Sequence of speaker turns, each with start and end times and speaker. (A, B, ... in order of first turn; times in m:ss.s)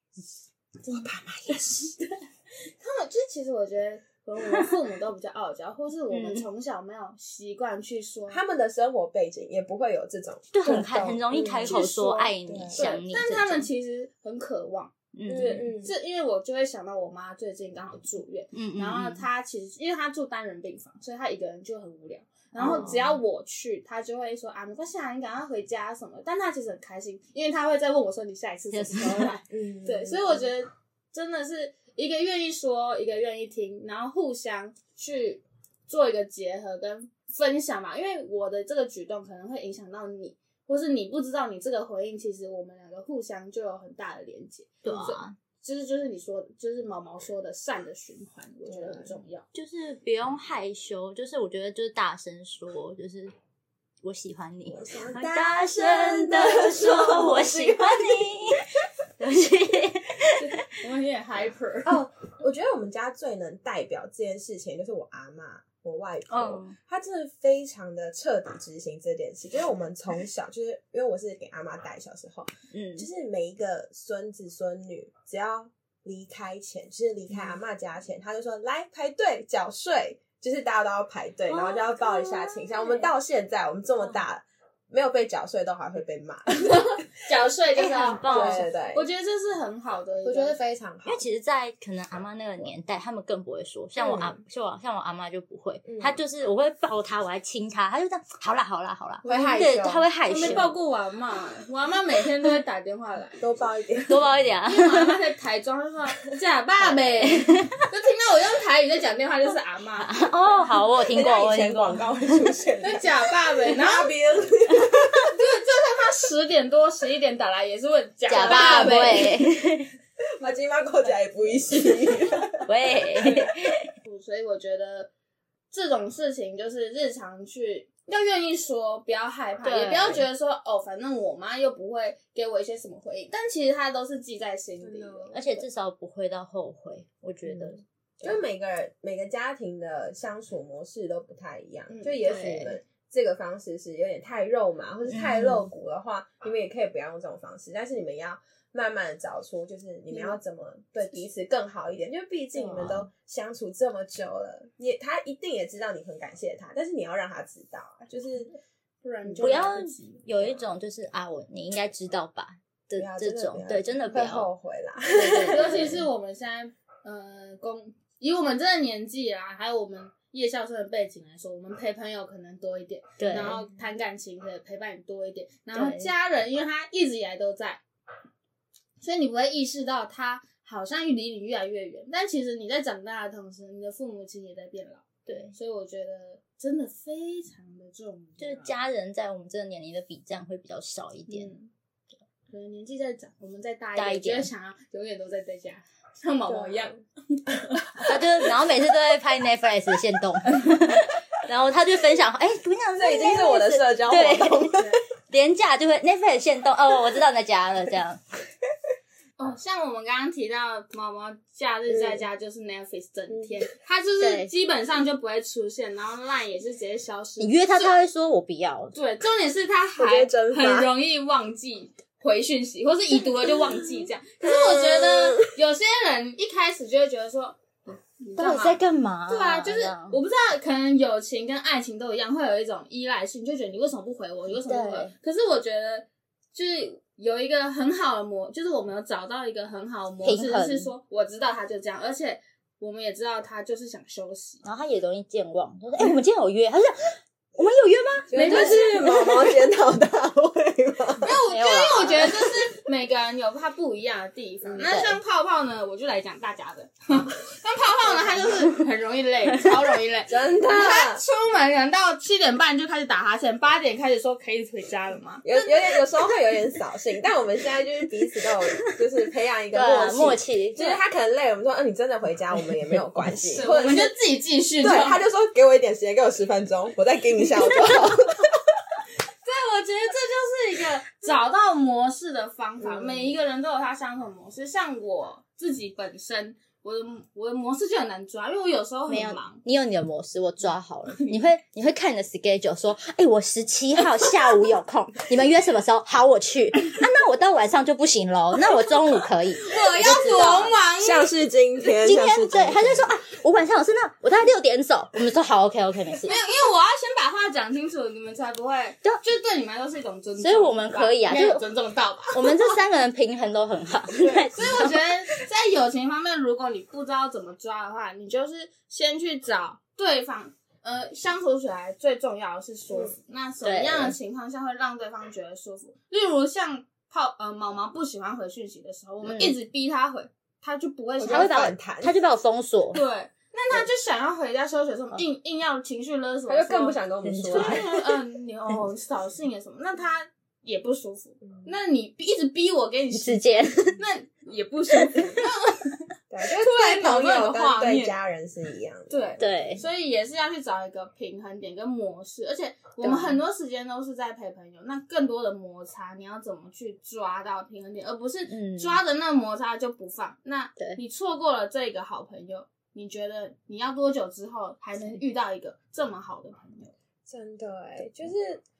0:00.8-0:02.1 A
0:02.8-0:08.4 B
0:06.1-0:06.4 C
0:08.3-0:11.8 A
0:10.5-0:13.7 C
0:11.5-0:49.4 B
0:12.4-0:12.8 A
0:15.1-0:15.7 C
0:15.3-0:15.9 A
0:18.5-0:19.2 C
0:22.6-0:23.0 A
0:22.6-0:23.2 C
0:28.7-0:29.4 C
0:29.5-0:30.5 A
0:44.8-0:45.3 C
0:48.6-0:49.1 A
0:49.5-0:53.3 C
0:54.0-1:00.6 C
0:54.7-0:58.2 A
1:00.4-1:02.0 B
1:01.8-1:27.0 A
1:06.3-1:06.7 C
1:12.7-1:13.1 C
1:21.5-1:23.0 C
1:26.6-1:30.6 B
1:27.7-1:28.7 C
1:28.3-1:29.0 A
1:30.2-1:31.2 A
1:31.0-1:40.7 C
1:34.0-1:34.4 A
1:35.8-1:36.2 A
1:39.2-1:40.7 A
1:40.2-1:43.4 B
1:43.4-1:44.3 A
1:44.1-1:45.1 C
1:44.6-1:50.1 B
1:46.9-1:47.7 C
1:50.0-1:52.5 C
1:51.0-1:55.4 A
1:52.8-1:54.1 B
1:55.3-1:59.3 B
1:58.3-1:59.9 C
1:58.3-1:59.4 A
2:00.4-2:02.6 A
2:02.6-2:03.8 C
2:04.0-2:05.1 B
2:05.7-2:15.4 B
2:09.6-2:10.2 C
2:14.8-2:15.6 A
2:15.3-2:17.8 C
2:17.5-2:38.5 A
2:21.9-2:22.2 B
2:22.2-2:22.8 C
2:25.1-2:25.7 C
2:30.1-2:30.4 B
2:32.6-2:33.1 C
2:39.0-2:40.6 B
2:39.2-2:39.5 A
2:39.4-2:44.5 C
2:43.0-2:45.9 A
2:45.1-2:46.0 C
2:45.2-2:57.8 B
2:53.2-2:53.6 C
2:55.7-2:56.1 C
2:59.0-3:08.8 B
3:05.3-3:05.6 C
3:08.4-3:11.5 C
3:11.3-3:11.7 B
3:12.5-3:17.8 B
3:14.0-3:14.5 C
3:16.5-3:17.0 A
3:18.0-3:28.2 C
3:22.9-3:24.9 A
3:24.7-3:25.0 B
3:29.4-3:38.0 B
3:31.9-3:32.2 A
3:34.2-3:34.5 C
3:37.4-3:39.0 C
3:38.9-4:04.6 B
3:40.0-3:40.9 A
3:44.0-3:45.5 A
3:48.4-3:50.2 C
3:54.6-3:55.1 C
4:00.2-4:00.9 C
4:04.6-4:08.8 C
4:08.3-4:11.3 A
4:08.3-4:09.3 B
4:11.2-4:26.0 B
4:11.5-4:12.5 C
4:14.8-4:15.2 C
4:20.3-4:21.2 A
4:25.4-4:34.1 A
4:29.7-4:31.0 C
4:33.5-4:35.2 B
4:34.8-4:38.6 A
4:39.4-4:49.6 B
4:42.8-4:43.3 A
4:49.1-5:00.7 C
4:59.6-5:01.3 B
5:00.3-5:03.1 A
5:02.0-5:06.3 C
5:06.2-5:12.7 B
5:10.4-5:11.6 C
5:12.3-5:15.4 C
5:14.1-5:31.7 B
5:23.6-5:24.1 C
5:29.2-5:29.6 C
5:31.2-5:32.1 A
5:31.2-5:33.0 C
5:32.9-5:48.2 B
5:36.5-5:37.9 A
5:37.2-5:38.0 C
5:43.1-5:44.0 C
5:46.3-5:49.4 A
5:49.1-6:06.9 B
5:49.4-5:49.8 C
5:53.0-5:53.4 C
5:58.5-5:59.0 C
6:07.3-6:08.6 A